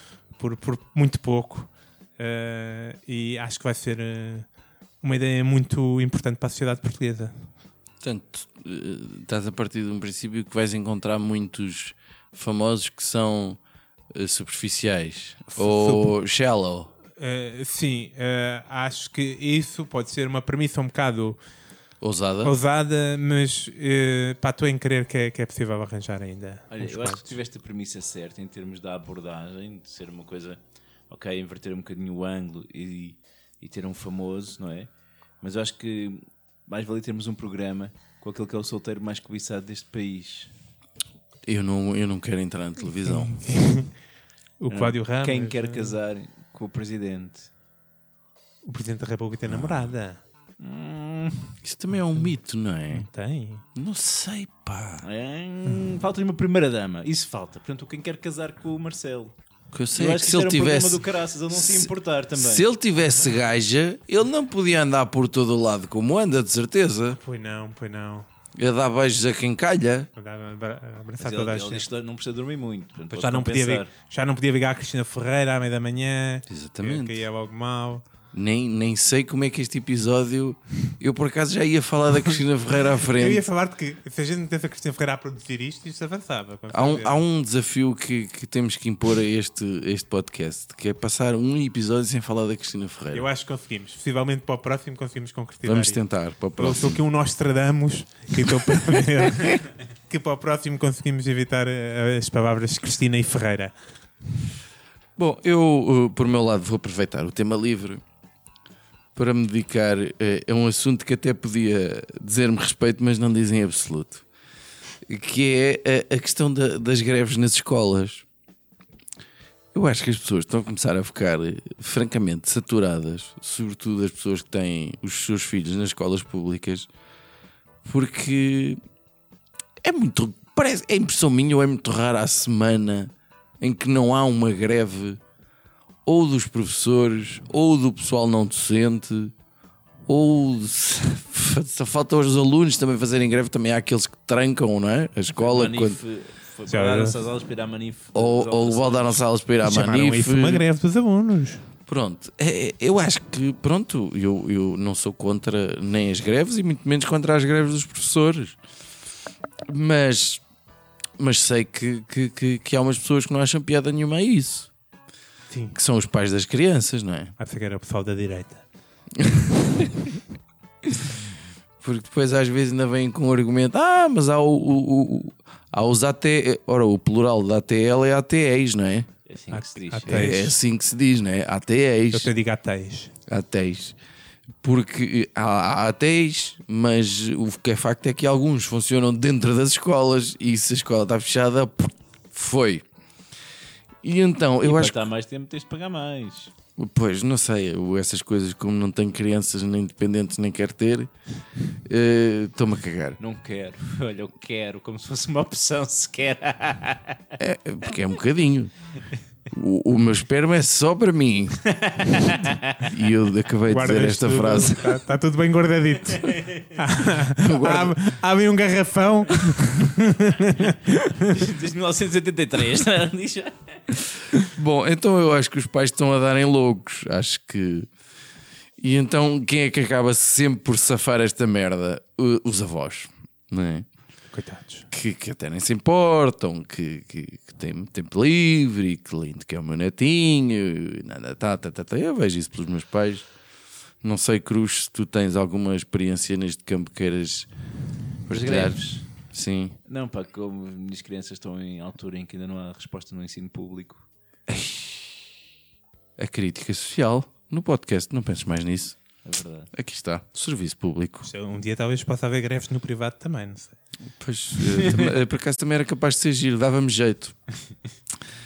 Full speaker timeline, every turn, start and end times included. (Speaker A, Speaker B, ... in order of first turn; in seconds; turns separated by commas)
Speaker A: 0.3-4.5, Speaker A: 5.0-7.5, Speaker B: 8.0-13.6, Speaker B: 14.1-16.9, Speaker A: 15.5-16.1, Speaker A: 17.2-21.4, Speaker B: 22.0-22.5, Speaker A: 22.4-27.3, Speaker C: 26.7-30.6, Speaker C: 31.1-34.9, Speaker C: 35.4-40.5, Speaker B: 41.5-43.4, Speaker A: 43.1-43.9, Speaker A: 44.6-45.9, Speaker C: 44.7-47.5, Speaker A: 48.6-50.2, Speaker B: 49.5-49.9, Speaker C: 50.6-51.5, Speaker B: 51.6-53.0, Speaker A: 52.9-53.6, Speaker B: 53.7-55.0, Speaker C: 55.0-59.3, Speaker B: 59.7-67.2, Speaker C: 59.9-62.7, Speaker A: 67.1-68.3, Speaker B: 68.5-70.1, Speaker A: 70.2-71.8, Speaker C: 71.2-73.9, Speaker A: 73.1-78.0, Speaker B: 76.5-77.2, Speaker B: 78.3-83.4, Speaker A: 83.1-87.2, Speaker B: 86.7-93.2, Speaker A: 93.1-96.0, Speaker B: 95.6-97.0, Speaker A: 96.5-103.7, Speaker B: 105.2-108.0, Speaker B: 109.1-114.2, Speaker B: 115.0-118.2, Speaker B: 119.7-126.9, Speaker B: 127.8-128.8, Speaker B: 129.8-135.2, Speaker B: 136.1-139.3, Speaker B: 140.1-146.0, Speaker C: 145.3-149.2, Speaker A: 146.7-147.1, Speaker B: 148.1-150.6, Speaker A: 149.6-151.6, Speaker B: 151.8-158.6, Speaker B: 159.7-160.4, Speaker B: 161.2-164.7, Speaker A: 165.5-165.8, Speaker B: 165.7-167.3, Speaker A: 167.4-168.6, Speaker B: 169.1-170.2, Speaker B: 170.8-171.2, Speaker B: 171.8-179.1, Speaker C: 179.2-180.3, Speaker A: 179.5-180.5, Speaker B: 180.1-182.3, Speaker A: 182.1-183.1, Speaker B: 183.3-183.9, Speaker B: 184.6-192.8, Speaker B: 194.0-195.0, Speaker C: 194.6-196.5, Speaker B: 196.8-201.1, Speaker B: 201.8-203.2, Speaker C: 203.2-207.2, Speaker B: 207.4-208.7, Speaker B: 209.5-211.7, Speaker C: 211.7-212.9, Speaker B: 212.8-215.0, Speaker A: 213.7-221.5, Speaker C: 216.1-216.7, Speaker B: 217.4-218.0, Speaker C: 221.3-223.7, Speaker B: 224.4-227.9, Speaker B: 228.8-233.9, Speaker A: 234.3-234.9, Speaker B: 234.9-243.3, Speaker B: 244.0-247.5, Speaker B: 248.2-249.8, Speaker C: 248.3-249.1, Speaker C: 249.9-254.0, Speaker B: 254.5-255.2, Speaker B: 256.2-259.0, Speaker C: 259.2-259.7, Speaker B: 259.7-261.3, Speaker A: 261.2-263.8, Speaker B: 264.1-267.4, Speaker C: 264.7-265.1